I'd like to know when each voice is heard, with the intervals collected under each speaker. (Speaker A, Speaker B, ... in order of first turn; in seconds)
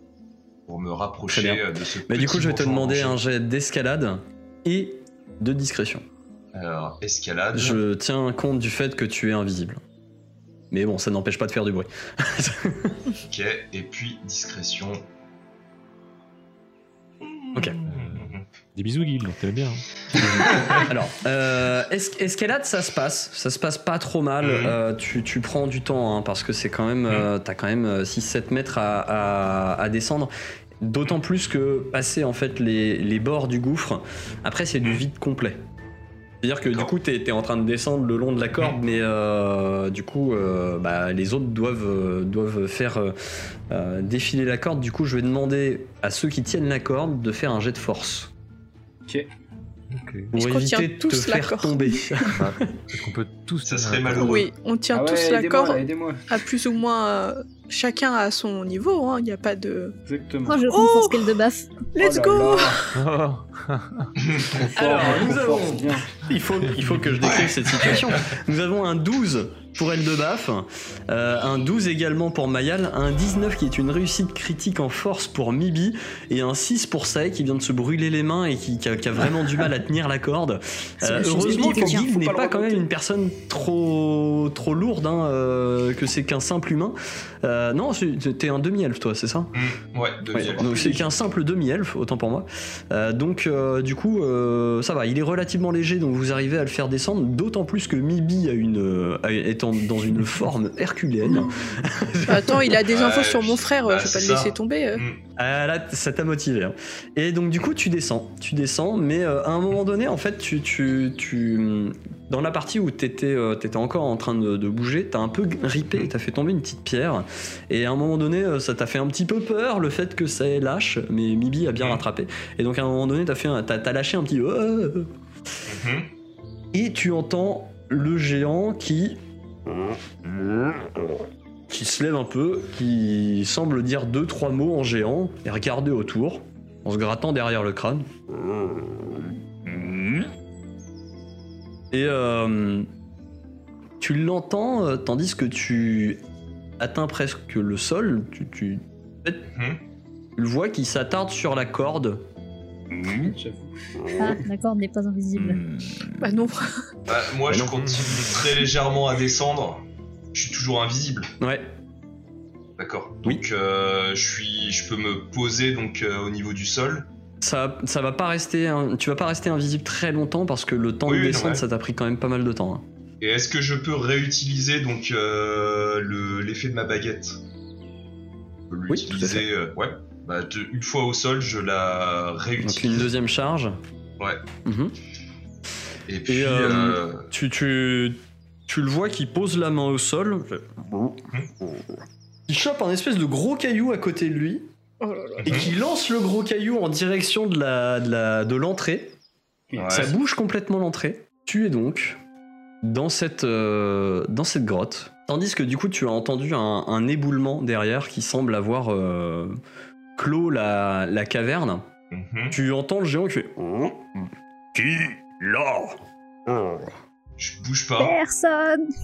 Speaker A: 0.7-3.2, 6.5-7.8, 13.2-15.1, 17.2-18.5, 20.2-20.9, 24.4-24.8, 36.6-36.9, 53.6-54.5, 64.2-64.6, 67.2-68.2, 89.5-91.1, 102.9-105.2, 121.8-122.0, 125.7-126.1, 149.5-149.8, 157.1-159.8, 160.3-161.3, 162.8-167.1, 171.1-171.6, 173.2-177.4, 178.7-183.1, 186.1-187.3, 195.4-195.7, 199.8-200.2, 212.1-212.6, 217.4-218.2
Speaker B: 1.3-6.0, 7.5-9.8, 10.7-13.0, 17.5-17.8, 20.8-35.6, 36.4-43.2, 43.7-48.3, 50.3-52.8, 64.8-89.5, 90.3-102.8, 105.4-125.1, 126.7-129.2, 131.7-138.1, 139.0-140.3, 141.9-142.9, 144.0-146.2, 146.8-149.5, 150.4-152.3, 152.9-153.3, 155.4-156.2, 157.5-158.3, 161.4-161.7, 167.4-172.8, 178.9-179.5, 182.6-183.8, 184.7-184.9, 186.3-191.8, 192.5-194.7, 195.5-199.2, 199.9-202.2, 202.8-209.6, 210.2-211.9, 212.5-214.1, 214.7-216.8
Speaker C: 17.9-20.9, 49.9-50.3, 52.4-54.5, 63.0-64.1
Speaker D: 50.3-52.3, 54.1-60.0, 60.7-61.4, 61.9-63.0, 64.8-65.2, 102.3-105.0, 156.2-156.7, 195.0-195.7
Speaker E: 54.9-56.2, 60.1-60.6, 62.0-62.9, 64.6-66.1, 81.0-82.9, 90.6-91.1, 153.2-154.4, 199.7-200.1
Speaker F: 60.5-61.9, 81.0-82.1, 154.2-155.6, 218.0-218.9